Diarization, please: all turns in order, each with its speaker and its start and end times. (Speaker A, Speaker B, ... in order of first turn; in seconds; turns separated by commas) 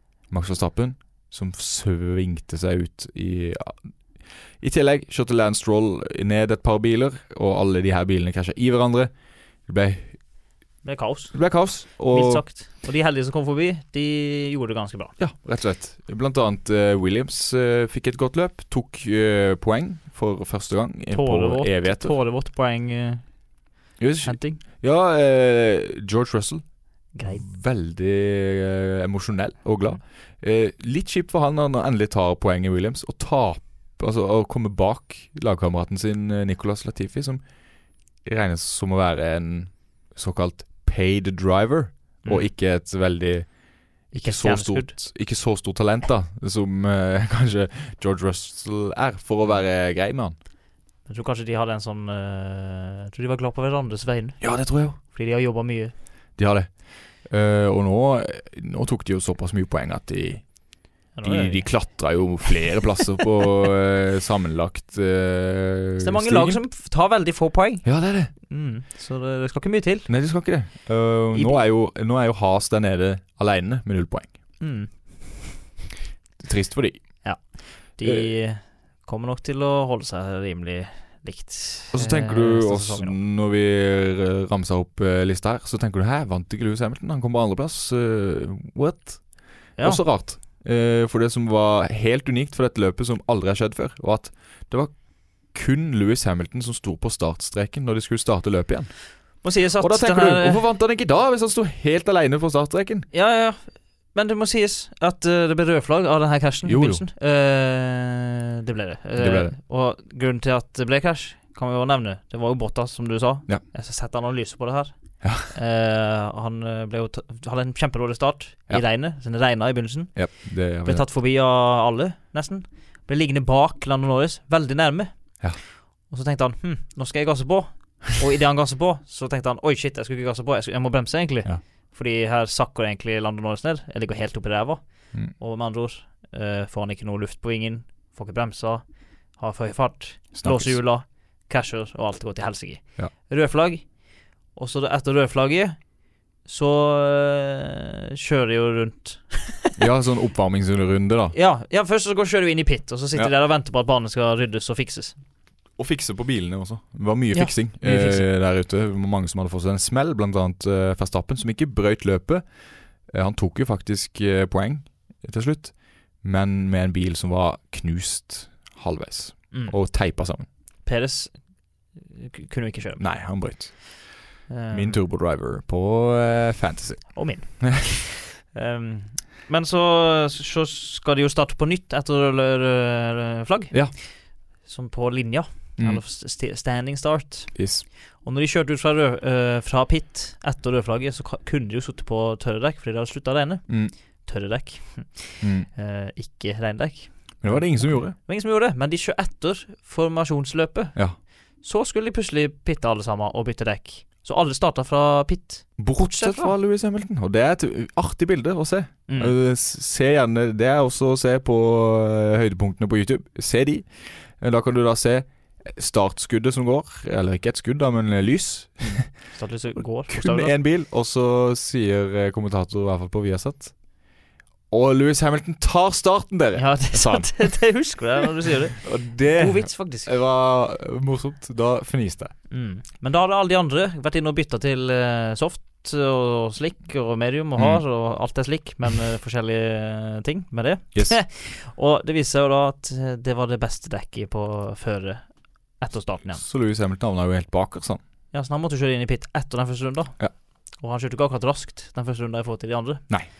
Speaker A: 0.3-3.9, Speaker A: 4.6-9.1, Speaker A: 9.7-10.2, Speaker B: 10.8-11.4, Speaker A: 11.3-12.4, Speaker B: 12.1-15.2, Speaker A: 15.2-22.1, Speaker B: 21.1-23.2, Speaker A: 24.0-26.6, Speaker B: 24.2-24.6, Speaker B: 27.1-27.4, Speaker A: 27.2-37.4, Speaker A: 38.2-50.4, Speaker B: 42.2-42.5, Speaker B: 44.1-45.0, Speaker B: 51.1-55.9, Speaker A: 54.4-55.0, Speaker A: 56.4-60.5, Speaker B: 61.1-62.0, Speaker A: 61.2-66.6, Speaker B: 66.0-70.1, Speaker A: 67.8-68.3, Speaker A: 70.1-74.3, Speaker B: 71.3-71.6, Speaker B: 74.6-75.5, Speaker A: 76.4-77.5, Speaker B: 77.2-83.2, Speaker A: 78.0-78.3, Speaker A: 81.9-94.9, Speaker B: 89.8-90.0, Speaker A: 95.5-99.0, Speaker B: 99.4-100.6, Speaker A: 99.8-103.1, Speaker B: 103.1-125.4, Speaker A: 106.7-107.0, Speaker A: 109.2-109.5, Speaker A: 115.2-115.5, Speaker A: 120.2-121.0, Speaker B: 125.9-144.0, Speaker A: 140.3-140.8, Speaker B: 144.5-145.8, Speaker B: 146.4-149.8, Speaker A: 149.8-151.3, Speaker B: 151.3-155.2, Speaker A: 155.8-162.5, Speaker B: 157.3-158.3, Speaker A: 163.1-170.5, Speaker B: 170.8-171.4, Speaker B: 172.0-173.1, Speaker A: 173.0-174.1, Speaker B: 174.5-175.0, Speaker A: 174.7-178.0, Speaker B: 177.2-184.1, Speaker B: 184.7-187.6, Speaker A: 187.6-187.9, Speaker B: 188.2-201.0, Speaker A: 195.4-195.7, Speaker A: 197.4-198.2, Speaker B: 201.6-206.5, Speaker A: 205.8-219.2, Speaker B: 209.1-209.3, Speaker B: 219.3-220.6, Speaker A: 220.1-223.8, Speaker A: 224.7-227.8, Speaker B: 226.6-230.1, Speaker A: 228.8-232.3, Speaker B: 232.5-246.4, Speaker A: 246.3-248.0, Speaker B: 248.3-250.2, Speaker B: 250.8-253.1